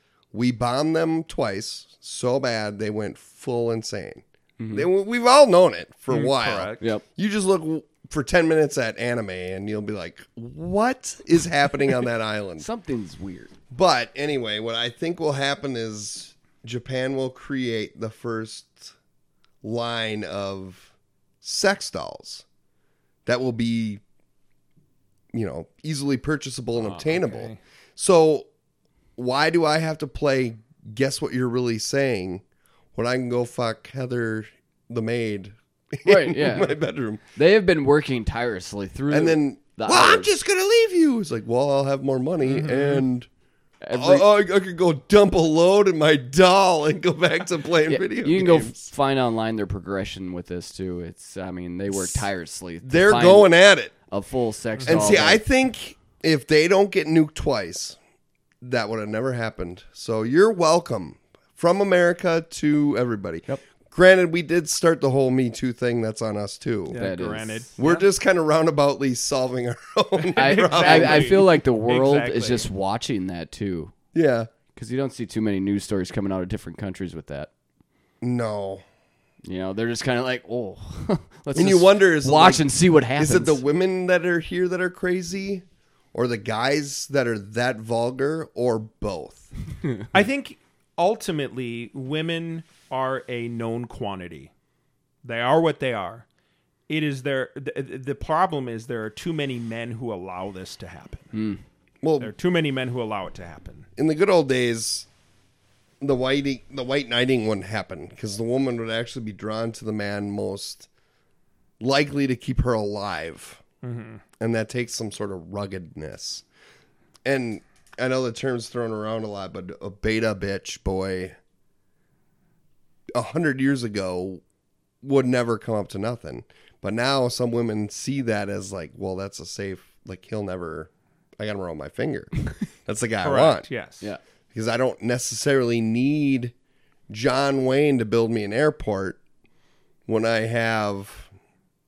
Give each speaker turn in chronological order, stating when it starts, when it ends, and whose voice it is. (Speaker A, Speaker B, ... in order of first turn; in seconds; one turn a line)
Speaker A: 0.3-12.7
Speaker B: 4.6-4.9
Speaker C: 6.1-6.8
Speaker B: 12.6-13.5
Speaker A: 13.7-18.9
Speaker A: 19.6-22.4
Speaker A: 23.2-24.0
Speaker A: 25.3-28.5
Speaker C: 26.8-27.6
Speaker A: 29.2-32.4
Speaker A: 32.9-37.2
Speaker B: 36.0-36.8
Speaker B: 37.3-40.3
Speaker A: 39.1-43.3
Speaker C: 42.5-43.0
Speaker B: 43.8-44.2
Speaker A: 43.9-48.9
Speaker B: 47.9-53.5
Speaker A: 51.9-52.3
Speaker A: 52.8-53.9
Speaker B: 54.1-55.4
Speaker C: 54.8-55.2
Speaker A: 54.9-58.0
Speaker A: 58.6-67.0
Speaker C: 66.9-68.0
Speaker B: 66.9-67.7
Speaker A: 67.8-71.5
Speaker C: 70.2-72.7
Speaker B: 70.3-73.9
Speaker A: 74.1-74.5
Speaker B: 74.8-77.5
Speaker A: 78.2-78.8
Speaker B: 79.4-83.6
Speaker A: 81.5-89.5
Speaker C: 90.1-94.5
Speaker C: 95.2-96.2
Speaker C: 96.9-101.3
Speaker B: 101.3-101.6
Speaker A: 102.0-102.3
Speaker C: 102.2-103.9
Speaker A: 104.0-105.1
Speaker A: 106.0-110.9
Speaker A: 111.8-113.6
Speaker C: 113.8-114.2
Speaker A: 114.4-116.4
Speaker A: 117.2-121.4
Speaker A: 123.1-124.4
Speaker A: 125.0-133.7
Speaker C: 133.2-134.1
Speaker A: 134.5-136.5
Speaker A: 137.1-139.2
Speaker A: 140.1-141.3